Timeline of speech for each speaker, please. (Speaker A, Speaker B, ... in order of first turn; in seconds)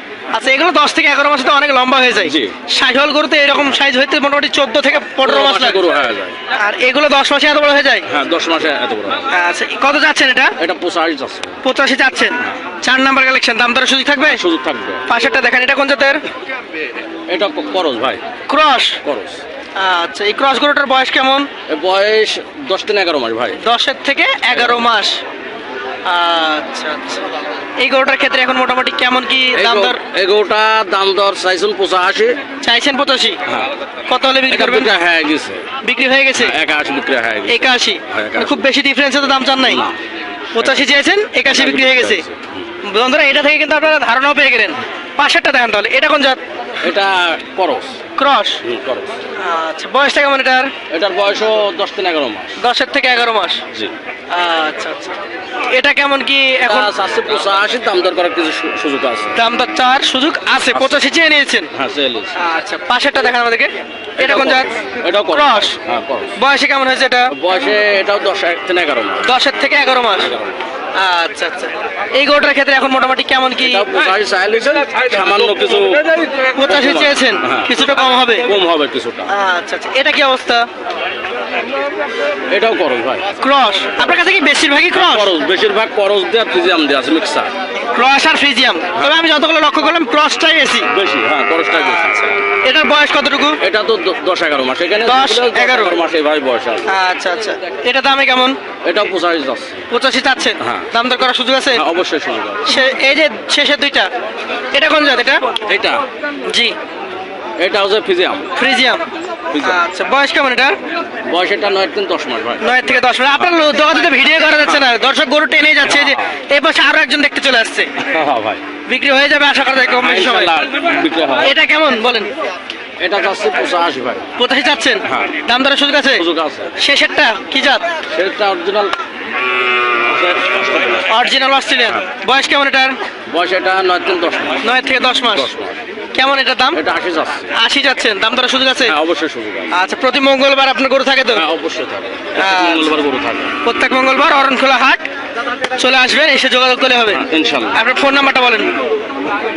Speaker A: 0.3-5.8, 6.5-8.1, 9.3-10.5, 11.6-14.4, 15.1-16.2, 18.5-19.0, 19.8-21.5, 23.6-25.2, 26.1-27.2, 27.8-30.0, 32.6-33.4, 34.1-34.9, 35.8-36.5, 37.5-39.8, 40.5-42.2, 42.8-46.4, 48.2-48.6, 49.4-50.7, 52.6-53.6, 54.3-55.1, 55.7-56.9, 59.3-61.7, 62.4-64.7, 65.3-65.8, 66.3-67.3, 69.2-70.3, 71.0-73.9, 76.5-78.5, 79.3-80.6, 83.4-85.3, 87.9-90.9, 91.7-93.6, 95.0-96.0, 96.9-98.5, 99.9-101.8, 102.6-104.1, 104.7-105.5, 108.5-109.0, 109.6-110.8, 112.6-117.9, 118.9-120.5, 121.4-122.3, 124.4-126.2, 126.8-127.9, 131.1-132.9, 134.6-135.5, 136.1-136.8, 137.5-138.9, 139.7-141.4, 142.3-142.9, 143.6-145.0, 145.8-148.7
Speaker B: 2.2-2.5, 5.2-6.4, 8.1-9.3, 10.6-11.6, 14.2-15.0, 17.3-18.2, 19.0-19.4, 21.7-23.6, 24.5-24.9, 29.5-32.4, 34.5-35.6, 36.4-38.6, 39.6-40.0, 40.6-40.9, 41.4-42.7, 46.8-48.0, 48.6-49.2, 50.9-52.5, 56.6-59.4, 60.7-61.0, 61.7-62.4, 64.2-66.3, 67.3-69.2, 70.2-70.5, 73.6-77.8, 78.4-79.3, 82.5-83.3, 84.9-87.5, 90.9-92.4, 93.6-96.9, 98.8-99.8, 100.6-100.9, 101.7-102.7, 105.7-106.0, 107.6-108.5, 109.5-109.8, 111.2-112.6, 115.8-116.3, 118.0-118.6, 120.0-121.5, 123.0-124.3, 125.0-125.4, 126.2-126.7, 128.1-128.9, 130.1-131.1, 133.3-134.7, 135.3-135.8, 136.7-137.5, 138.8-139.7, 141.2-143.6, 147.1-147.8